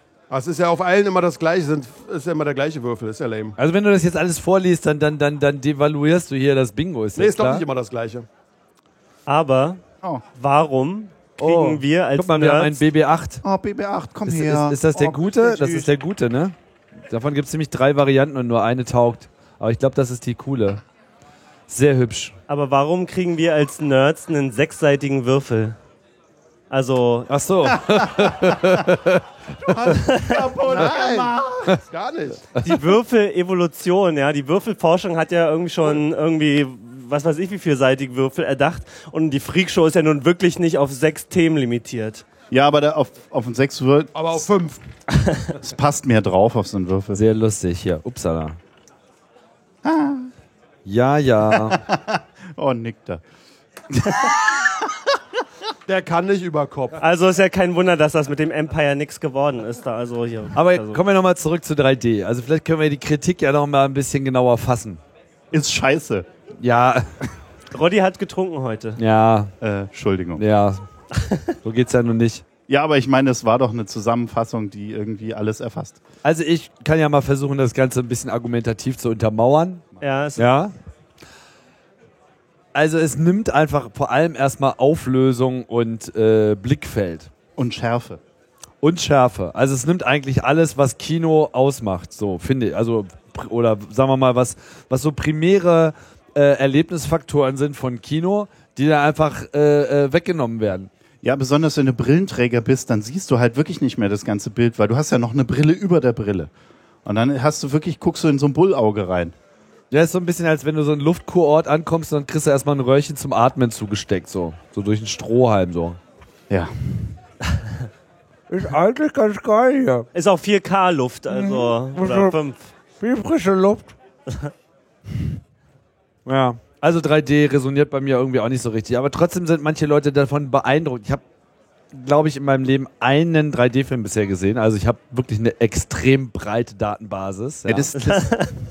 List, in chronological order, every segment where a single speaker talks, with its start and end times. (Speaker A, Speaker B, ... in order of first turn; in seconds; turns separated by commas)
Speaker A: 0.3-3.5, Speaker B: 3.6-7.7, Speaker A: 7.2-8.3, Speaker C: 9.3-9.8, Speaker C: 10.3-12.8, Speaker B: 11.4-13.4, Speaker D: 13.4-15.9, Speaker B: 14.3-16.6, Speaker B: 17.1-20.8, Speaker B: 21.7-22.4, Speaker C: 22.5-25.8, Speaker C: 26.7-27.3, Speaker B: 27.3-30.0, Speaker D: 27.7-28.9, Speaker D: 29.6-31.8, Speaker C: 30.0-30.5, Speaker A: 30.6-31.3, Speaker A: 31.9-32.5, Speaker C: 32.6-42.2, Speaker D: 42.5-44.5, Speaker A: 44.1-44.8, Speaker D: 45.5-47.2, Speaker B: 47.1-48.6, Speaker D: 49.8-50.3, Speaker B: 50.9-51.8, Speaker D: 51.5-53.2, Speaker D: 53.9-55.1, Speaker A: 55.9-57.0, Speaker C: 57.0-61.0, Speaker B: 60.6-65.0, Speaker D: 65.5-66.3, Speaker B: 66.6-67.1, Speaker C: 67.7-69.0, Speaker B: 69.0-69.5, Speaker D: 69.6-70.4, Speaker B: 70.4-70.8, Speaker B: 71.6-72.4, Speaker D: 72.7-76.0, Speaker B: 76.2-79.9, Speaker C: 80.0-80.5, Speaker B: 80.4-80.7, Speaker B: 82.7-87.3, Speaker D: 87.6-88.2, Speaker B: 88.8-100.9, Speaker D: 101.2-106.5, Speaker D: 107.0-109.3, Speaker B: 109.9-116.0, Speaker B: 118.5-120.1, Speaker C: 120.1-122.7, Speaker B: 121.3-122.3, Speaker B: 123.0-123.9, Speaker B: 126.3-131.2, Speaker B: 131.9-138.3, Speaker D: 137.7-138.0, Speaker C: 138.0-138.5